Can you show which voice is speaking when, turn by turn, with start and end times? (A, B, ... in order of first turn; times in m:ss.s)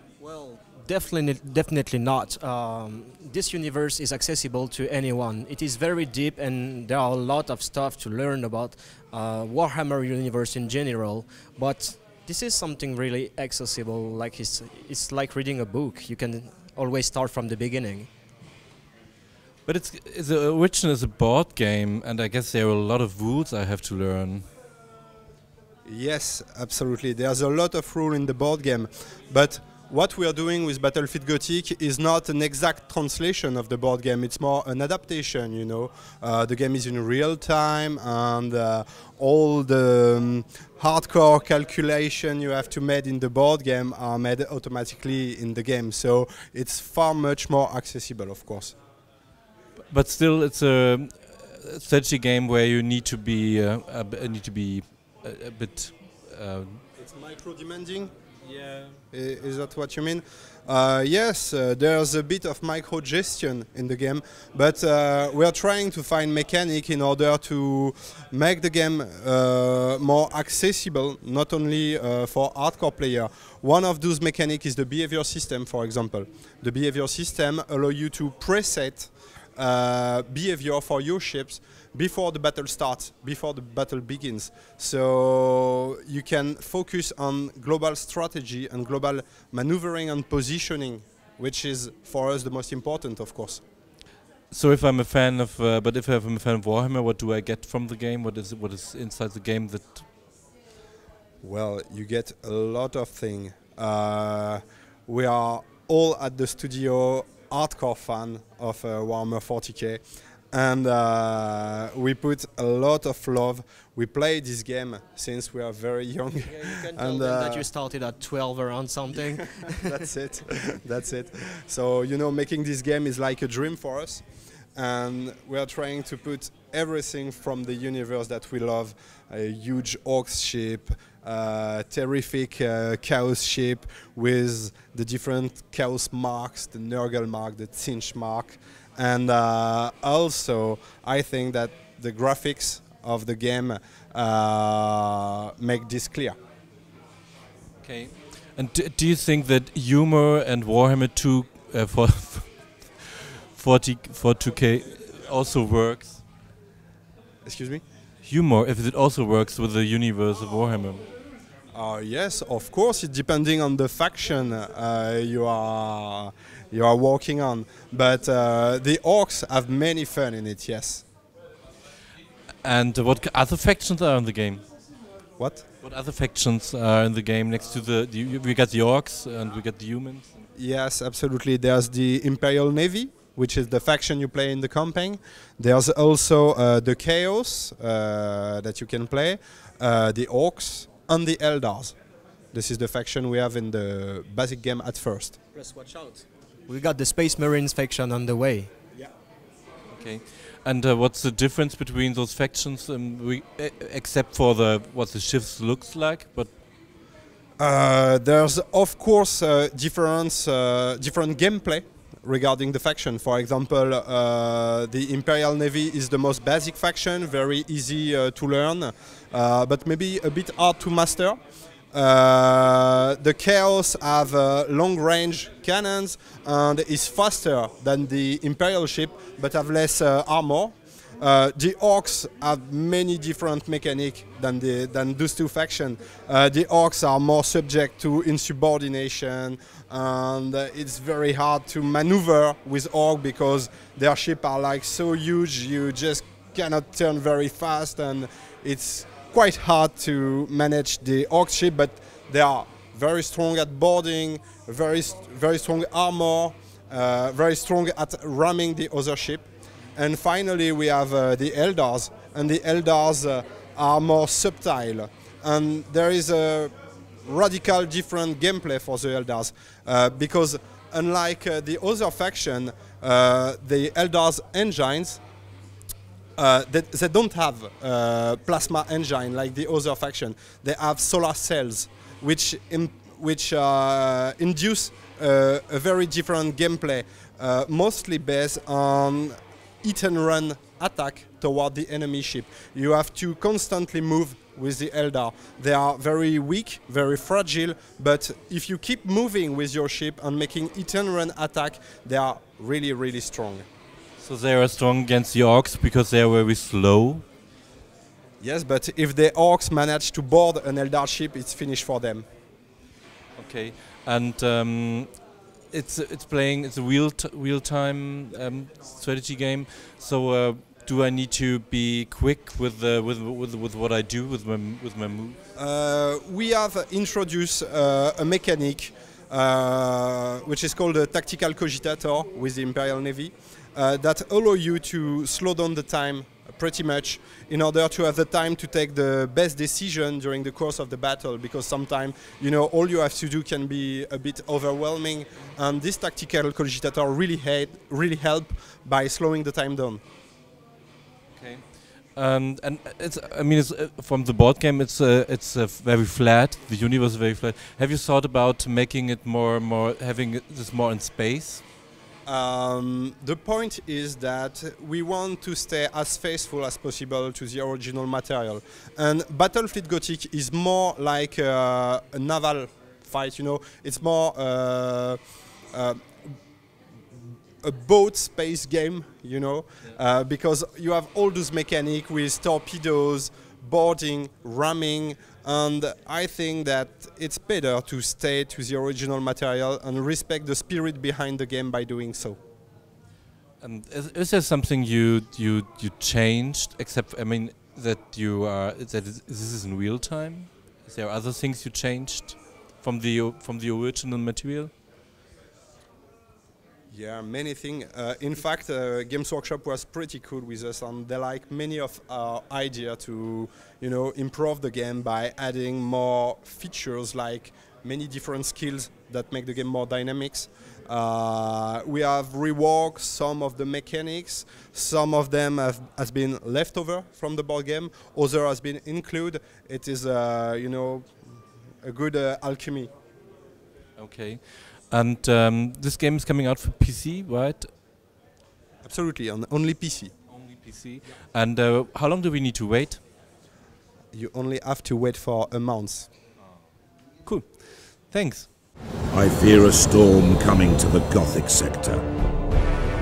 0:00.2-0:18.1 A
0:19.7-0:24.5 B
0:25.8-0:48.8 C
0:49.9-0:56.8 B
0:57.0-0:58.1 C
0:59.1-1:33.6 C
1:34.5-1:40.1 B
1:41.4-1:57.7 C
1:56.4-2:00.1 A
1:59.7-2:04.2 C
2:04.8-2:26.4 C
2:27.8-2:36.2 B
2:37.4-2:37.8 C
2:38.2-2:41.1 B
2:41.7-2:51.1 C
2:52.6-2:54.6 B
2:55.4-2:55.6 C
2:55.8-3:00.4 B
3:00.6-3:12.0 C
3:12.5-3:15.4 C
3:15.6-3:19.0 A
3:19.9-3:26.5 B
3:27.6-3:41.4 C
3:41.9-4:26.7 C
4:27.2-4:35.2 C
4:36.4-5:03.7 C
5:04.2-5:07.3 B
5:08.4-5:12.3 C
5:13.4-5:25.4 B
5:25.6-5:50.0 C
5:51.3-6:01.7 B
6:02.3-6:15.2 C
6:15.7-6:16.4 C
6:17.6-6:32.4 C
6:33.6-6:44.7 B
6:46.9-7:12.9 C
7:14.0-7:17.7 B
7:18.8-7:20.1 C
7:20.3-7:23.0 B
7:24.1-7:26.1 C
7:26.4-7:26.7 B
7:27.2-7:28.5 B
7:29.1-7:32.1 D